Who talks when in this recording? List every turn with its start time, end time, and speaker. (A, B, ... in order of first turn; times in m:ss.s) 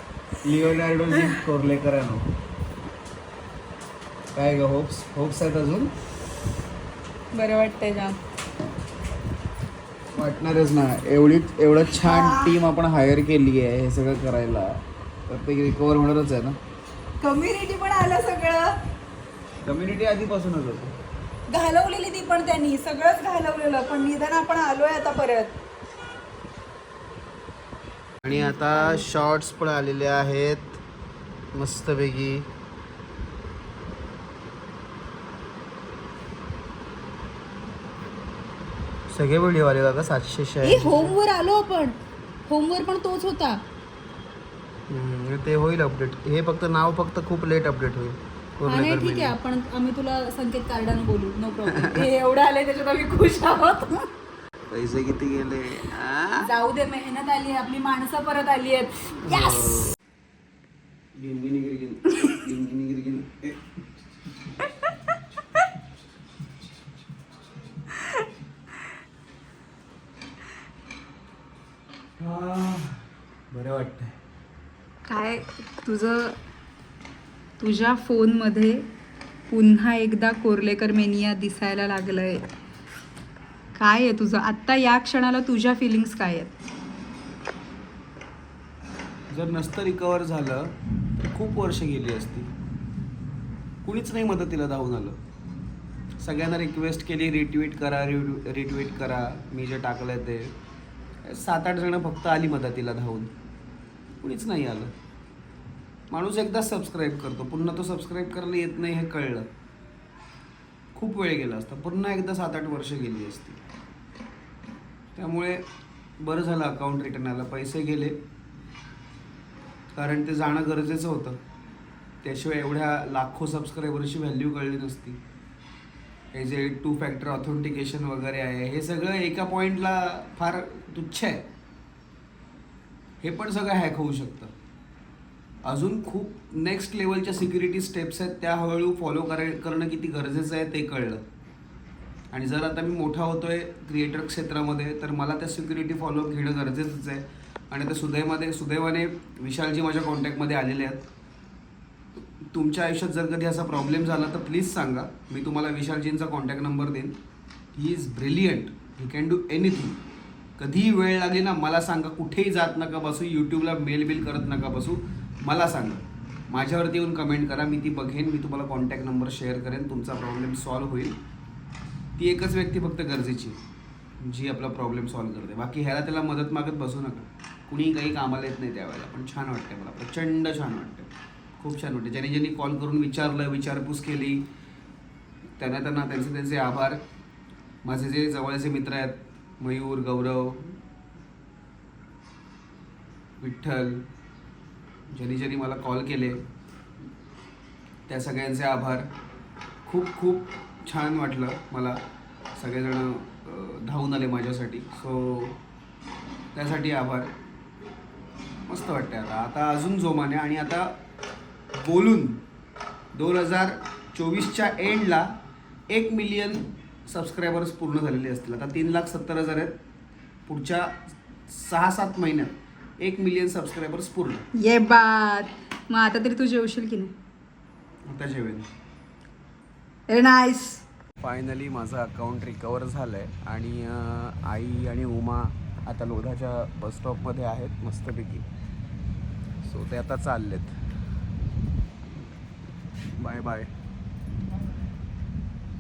0:00.4-0:02.3 A
0:04.3-0:05.9 A
0:07.3-0:08.2 B
0:10.1-0:16.6 A
0:11.9-0:12.5 B
0:17.2-0:18.8 B
0:19.6-0:21.0 A
0:21.5-0:25.6 B
0:28.2-0:30.8 A
0:28.3-0:29.0 B
0:31.5-0:32.5 A
0:39.1-0:41.2 A
0:40.6-0:43.6 B
0:44.9-0:49.4 A
0:48.7-0:54.1 B
0:51.7-0:52.1 A
0:54.7-0:56.5 A
0:56.4-0:59.8 B
0:59.2-1:00.0 A
1:01.2-1:03.6 A
1:12.2-1:14.2 A
1:15.1-1:16.4 B
1:17.6-1:18.9 B
1:19.5-1:22.5 B
1:23.8-1:26.5 B
1:29.3-1:30.8 A
1:31.3-1:32.5 A
1:33.8-1:35.2 A
1:36.2-1:40.6 A
1:41.2-1:43.3 A
1:44.2-1:44.9 A
1:46.1-1:49.5 A
1:51.0-1:53.6 A
1:55.2-1:55.6 A
1:56.2-1:58.2 A
1:59.9-2:01.4 A
2:02.2-2:05.2 A
2:06.3-2:11.5 A
2:13.2-2:14.5 A
2:15.6-2:21.2 A
2:22.3-2:31.0 A
2:32.4-2:37.2 A
2:37.7-2:40.0 A
2:40.6-2:51.2 A
2:52.2-2:53.6 A
2:54.2-3:04.5 A
3:05.6-3:07.0 A
3:07.8-3:10.8 A
3:13.4-3:14.0 A
3:15.1-3:16.4 A
3:18.1-3:19.1 A
3:19.9-3:22.0 A
3:22.6-3:25.6 A
3:26.5-3:27.3 A
3:28.7-3:30.9 A
3:31.7-3:32.4 A
3:33.1-3:35.3 A
3:35.9-3:39.8 A
3:40.5-3:44.4 A
3:44.5-3:47.1 B
3:48.1-3:48.7 A
3:50.1-3:50.8 B
3:51.2-3:58.5 A
3:59.6-4:00.8 A
4:03.2-4:03.7 A